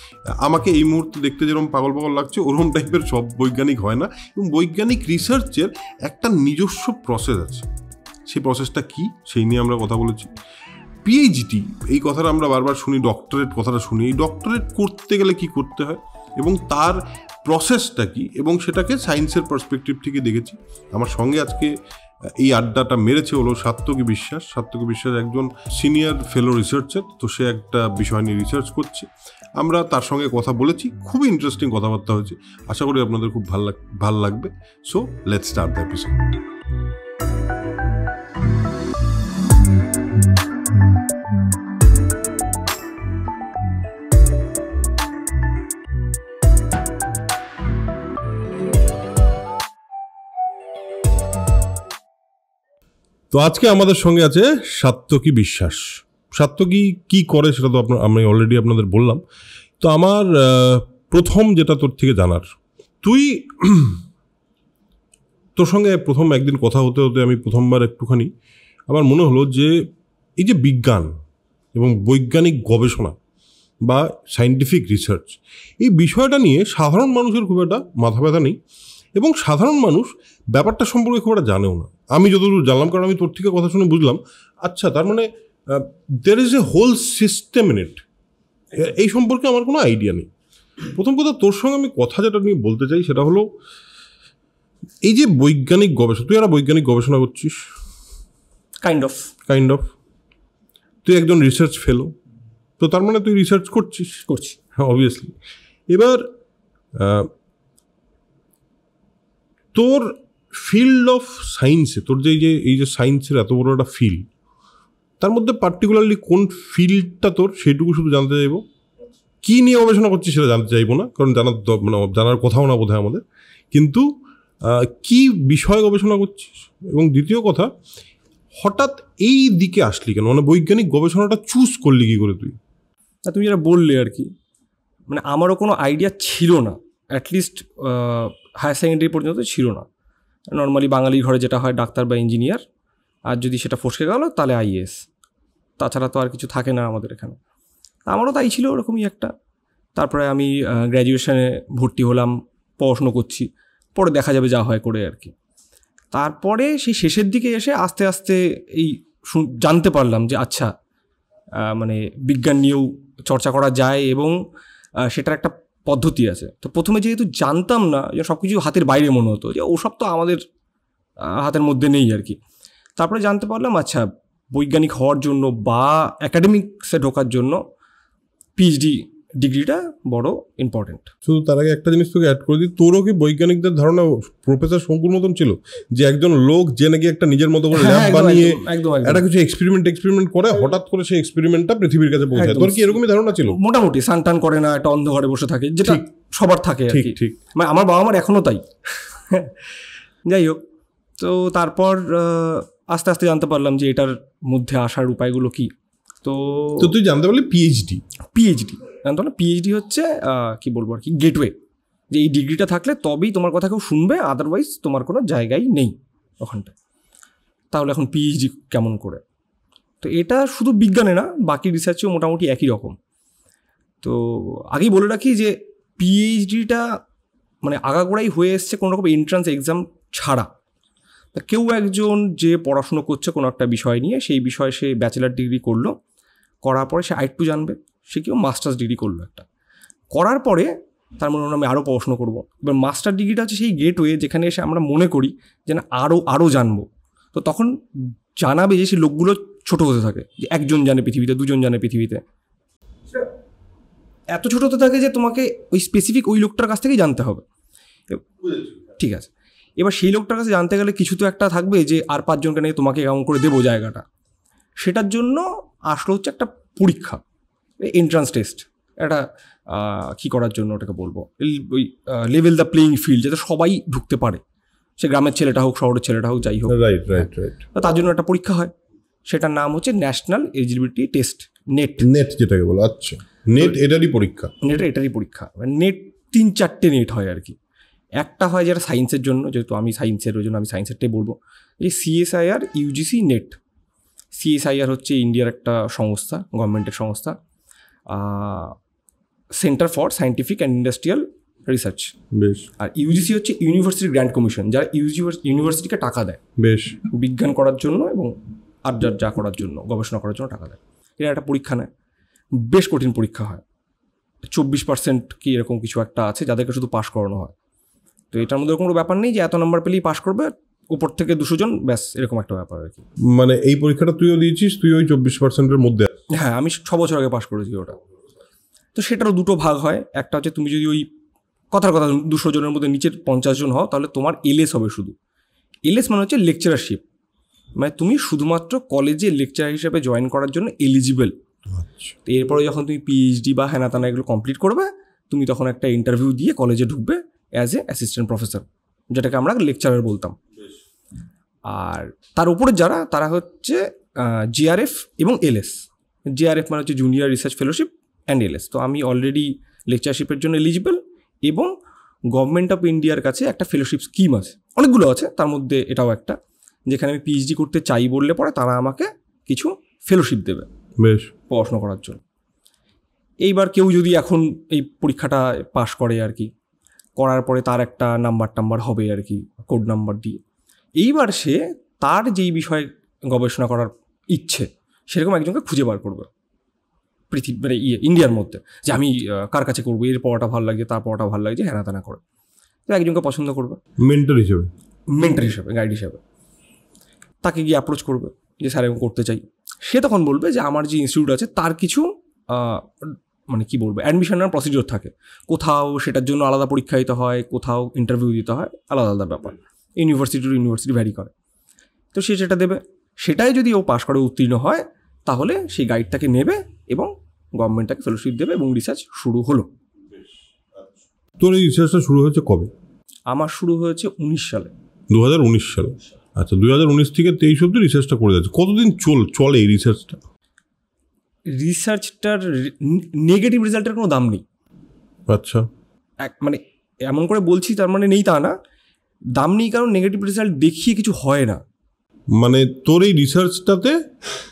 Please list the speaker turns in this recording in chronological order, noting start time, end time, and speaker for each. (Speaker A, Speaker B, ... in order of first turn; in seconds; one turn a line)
Speaker A: 0.4-7.7
Speaker A: 8.3-10.3
Speaker A: 11.0-21.7
Speaker A: 22.4-29.1
Speaker A: 29.6-36.3
Speaker A: 53.3-59.2
Speaker A: 59.8-62.4
Speaker A: 63.0-64.0
Speaker A: 65.5-68.3
Speaker A: 68.9-69.8
Speaker A: 70.4-71.1
Speaker A: 71.7-73.2
Speaker A: 73.8-78.6
Speaker A: 79.2-88.0
Speaker A: 88.7-90.3
Speaker A: 90.9-93.5
Speaker A: 95.0-97.7
Speaker B: 98.8-99.3
Speaker A: 99.5-99.9
Speaker A: 101.0-102.1
Speaker A: 102.8-105.3
Speaker B: 104.3-104.6
Speaker A: 105.9-106.3
Speaker A: 106.9-107.3
Speaker A: 109.7-114.3
Speaker A: 115.2-118.6
Speaker A: 119.4-124.1
Speaker A: 124.6-127.7
Speaker A: 128.6-132.6
Speaker B: 133.2-134.3
Speaker B: 135.1-139.8
Speaker B: 140.5-142.6
Speaker B: 143.3-144.9
Speaker B: 145.8-147.4
Speaker B: 148.1-149.3
Speaker B: 150.0-155.3
Speaker B: 156.1-160.7
Speaker B: 161.6-164.3
Speaker B: 165.0-170.4
Speaker B: 171.2-172.4
Speaker B: 173.0-177.6
Speaker B: 178.6-181.1
Speaker A: 181.2-193.6
Speaker B: 187.7-189.2
Speaker B: 192.3-199.6
Speaker A: 196.9-197.4
Speaker B: 200.2-200.6
Speaker B: 201.2-205.7
Speaker B: 206.2-206.9
Speaker A: 206.8-208.0
Speaker B: 208.3-211.5
Speaker B: 212.1-216.7
Speaker B: 217.7-219.2
Speaker B: 220.0-222.9
Speaker B: 224.0-226.8
Speaker B: 227.6-230.5
Speaker B: 231.3-235.9
Speaker B: 236.6-239.4
Speaker B: 240.1-247.7
Speaker B: 248.4-252.2
Speaker B: 254.3-257.4
Speaker B: 259.0-264.0
Speaker B: 264.8-267.2
Speaker B: 267.8-274.4
Speaker B: 275.0-278.7
Speaker A: 276.7-277.6
Speaker B: 279.2-282.1
Speaker A: 282.0-284.5
Speaker B: 284.6-287.6
Speaker B: 288.2-293.6
Speaker B: 294.3-297.4
Speaker B: 298.1-298.8
Speaker B: 299.6-302.1
Speaker A: 302.3-302.7
Speaker B: 302.8-306.4
Speaker A: 306.6-306.9
Speaker B: 307.1-308.3
Speaker B: 308.8-311.9
Speaker B: 312.6-313.6
Speaker B: 314.5-317.5
Speaker B: 318.3-323.0
Speaker A: 323.3-326.1
Speaker B: 326.3-328.0
Speaker B: 328.9-331.1
Speaker B: 331.7-335.1
Speaker B: 335.8-337.0
Speaker B: 337.8-341.3
Speaker A: 341.7-342.1
Speaker B: 342.2-350.4
Speaker B: 351.7-355.8
Speaker B: 356.3-361.7
Speaker B: 362.3-366.4
Speaker B: 366.9-370.7
Speaker A: 371.0-371.3
Speaker B: 371.5-372.2
Speaker B: 373.4-376.5
Speaker B: 377.2-380.4
Speaker B: 381.0-386.3
Speaker B: 387.3-392.2
Speaker B: 392.9-393.8
Speaker A: 394.0-394.7
Speaker B: 395.1-396.2
Speaker B: 397.4-411.3
Speaker B: 412.1-419.7
Speaker A: 421.4-422.7
Speaker B: 423.3-424.7
Speaker A: 425.1-430.2
Speaker B: 431.5-434.4
Speaker A: 435.3-435.6
Speaker B: 436.2-438.6
Speaker B: 439.3-441.6
Speaker A: 442.4-444.0